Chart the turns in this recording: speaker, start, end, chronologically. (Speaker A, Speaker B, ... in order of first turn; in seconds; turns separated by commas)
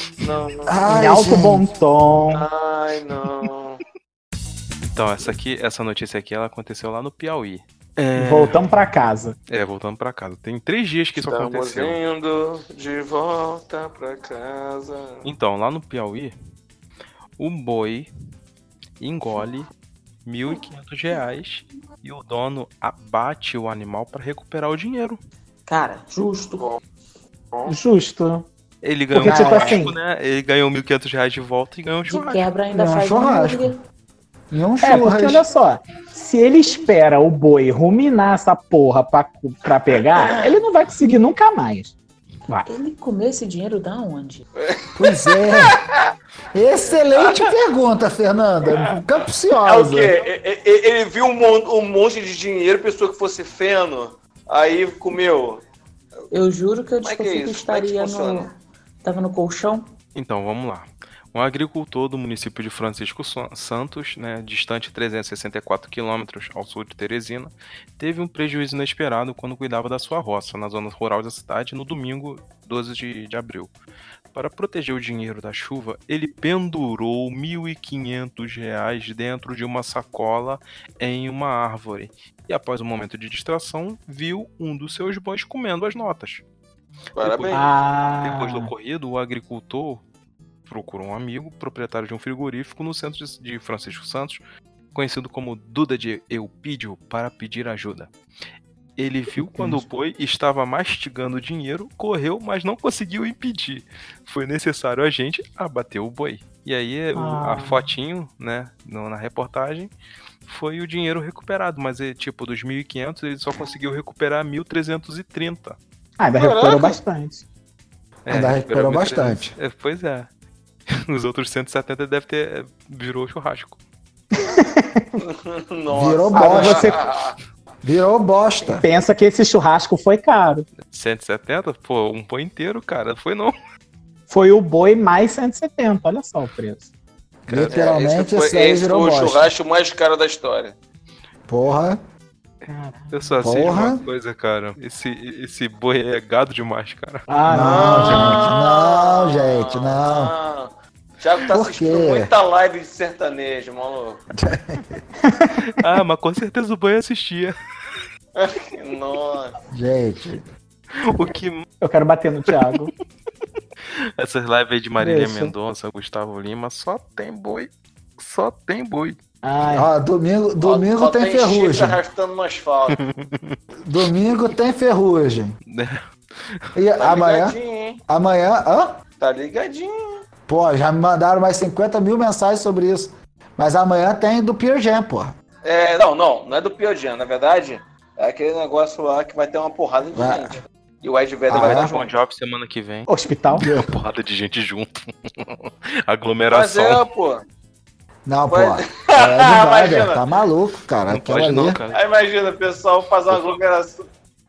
Speaker A: 0.2-0.8, Speaker B: 0.7-1.6, Speaker C: 0.9-2.5, Speaker A: 2.3-3.8, Speaker D: 4.9-8.6, Speaker C: 8.1-9.3, Speaker D: 9.5-12.0, Speaker A: 11.2-15.2, Speaker D: 15.2-16.3, Speaker D: 17.4-18.1, Speaker D: 19.0-19.7, Speaker D: 20.2-25.2, Speaker E: 25.7-26.8, Speaker C: 27.6-28.4, Speaker D: 28.8-32.5, Speaker C: 29.1-29.9, Speaker B: 29.2-29.8, Speaker E: 32.1-33.8, Speaker B: 32.7-33.7, Speaker B: 34.5-35.4, Speaker C: 34.8-41.9, Speaker E: 42.7-44.5, Speaker A: 44.6-45.8, Speaker B: 45.0-45.8, Speaker B: 46.5-50.1, Speaker A: 47.2-47.5, Speaker A: 49.6-55.6, Speaker E: 56.3-58.5, Speaker A: 57.0-58.5, Speaker E: 59.0-59.9, Speaker D: 60.1-73.7, Speaker D: 74.3-86.4, Speaker A: 87.2-87.7, Speaker D: 87.2-87.7, Speaker C: 87.5-88.7, Speaker D: 88.2-90.0, Speaker D: 90.6-94.4, Speaker D: 94.9-98.1, Speaker D: 99.0-109.9, Speaker C: 99.3-99.8, Speaker C: 107.1-107.8, Speaker D: 110.5-115.8, Speaker C: 116.2-117.4, Speaker A: 116.3-117.0, Speaker D: 118.2-120.3, Speaker B: 118.3-119.5, Speaker D: 120.9-123.8, Speaker C: 124.3-125.2, Speaker A: 125.2-127.3, Speaker B: 125.9-126.9, Speaker C: 126.3-127.0, Speaker B: 127.8-128.8, Speaker C: 128.6-130.7, Speaker D: 130.8-133.5, Speaker C: 134.3-136.9, Speaker B: 137.4-139.5, Speaker D: 137.5-137.8, Speaker A: 137.6-140.7, Speaker B: 141.5-142.0, Speaker C: 142.6-143.5, Speaker D: 143.1-147.3, Speaker B: 143.4-144.0, Speaker C: 147.3-148.5, Speaker B: 147.5-150.3, Speaker A: 147.5-154.2, Speaker B: 151.5-152.3, Speaker B: 154.4-155.0, Speaker C: 155.2-155.6, Speaker D: 155.6-157.5, Speaker A: 158.3-159.5, Speaker B: 159.7-160.5, Speaker D: 160.9-161.7, Speaker C: 161.8-162.9, Speaker D: 164.2-169.2, Speaker C: 165.0-165.5, Speaker C: 169.4-169.9, Speaker B: 169.7-172.0, Speaker A: 170.6-173.0, Speaker D: 173.0-173.6, Speaker B: 173.8-175.6, Speaker D: 175.7-176.1, Speaker B: 176.7-177.6, Speaker A: 177.0-178.0, Speaker B: 178.1-179.0, Speaker A: 179.2-180.2, Speaker B: 180.5-185.3, Speaker A: 185.6-192.1, Speaker B: 190.1-190.6, Speaker B: 191.5-191.9, Speaker D: 191.5-197.1, Speaker C: 193.1-193.7, Speaker B: 193.5-193.9, Speaker A: 196.5-197.4, Speaker B: 198.2-201.8, Speaker A: 198.5-200.2, Speaker D: 201.1-202.0, Speaker A: 201.9-204.1, Speaker D: 203.3-203.6